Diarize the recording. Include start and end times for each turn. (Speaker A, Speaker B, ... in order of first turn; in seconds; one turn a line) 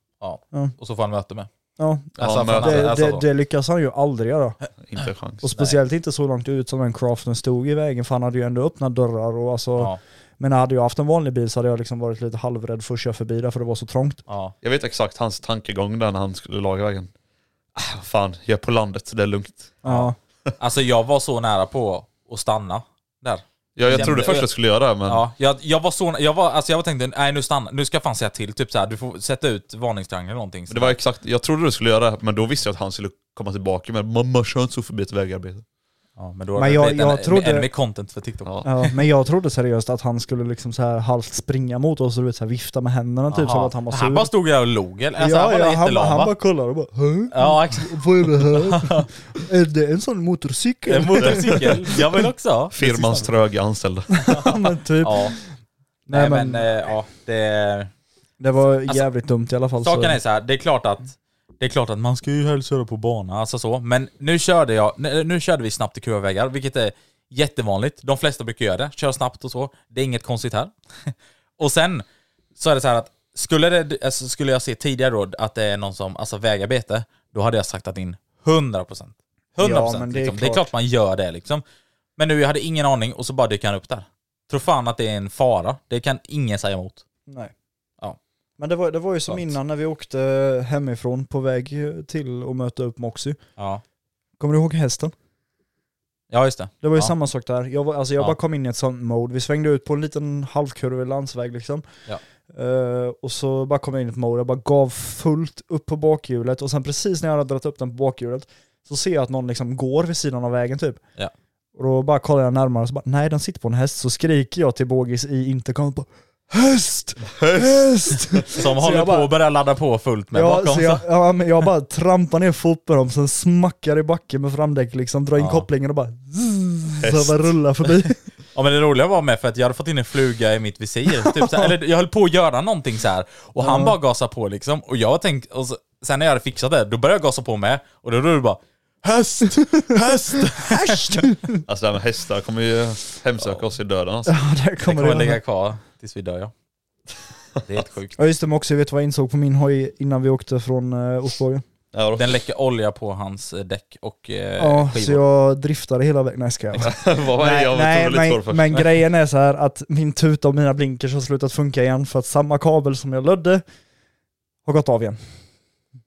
Speaker A: 0.2-1.5
Speaker B: 1.8-4.6
Speaker A: 2.2-3.3
Speaker C: 2.2-3.2
Speaker C: 4.8-5.5
Speaker B: 5.4-14.2
Speaker A: 5.5-5.8
Speaker A: 14.3-14.6
Speaker C: 14.6-17.1
Speaker C: 17.8-19.8
Speaker B: 19.8-20.2
Speaker A: 19.8-31.0
Speaker C: 23.8-25.2
Speaker C: 30.7-35.6
Speaker A: 36.2-38.9
Speaker B: 36.6-37.7
Speaker B: 38.6-44.3
Speaker A: 43.3-46.4
Speaker B: 45.2-52.1
Speaker A: 47.3-49.1
Speaker A: 50.9-53.3
Speaker C: 51.2-51.9
Speaker C: 52.7-54.5
Speaker B: 54.2-55.3
Speaker A: 54.3-55.4
Speaker B: 56.1-56.7
Speaker A: 56.1-57.9
Speaker B: 58.4-60.2
Speaker A: 59.8-72.0
Speaker A: 72.6-81.6
Speaker B: 79.6-80.7
Speaker A: 82.2-87.0
Speaker B: 88.6-93.4
Speaker A: 89.3-89.5
Speaker A: 93.6-93.8
Speaker B: 94.4-95.1
Speaker A: 96.3-97.1
Speaker B: 96.8-101.8
Speaker B: 102.5-111.0
Speaker B: 111.8-119.3
Speaker C: 117.3-118.5
Speaker A: 118.5-121.1
Speaker B: 120.3-128.2
Speaker A: 125.4-125.7
Speaker C: 127.0-127.4
Speaker A: 128.6-141.3
Speaker B: 131.3-131.7
Speaker B: 133.6-133.9
Speaker B: 140.5-141.6
Speaker C: 141.7-144.4
Speaker B: 144.3-145.4
Speaker A: 144.8-146.5
Speaker A: 147.7-148.2
Speaker B: 148.2-151.7
Speaker C: 151.9-152.4
Speaker A: 152.2-155.2
Speaker B: 154.6-163.6
Speaker C: 156.8-158.9
Speaker B: 164.7-165.2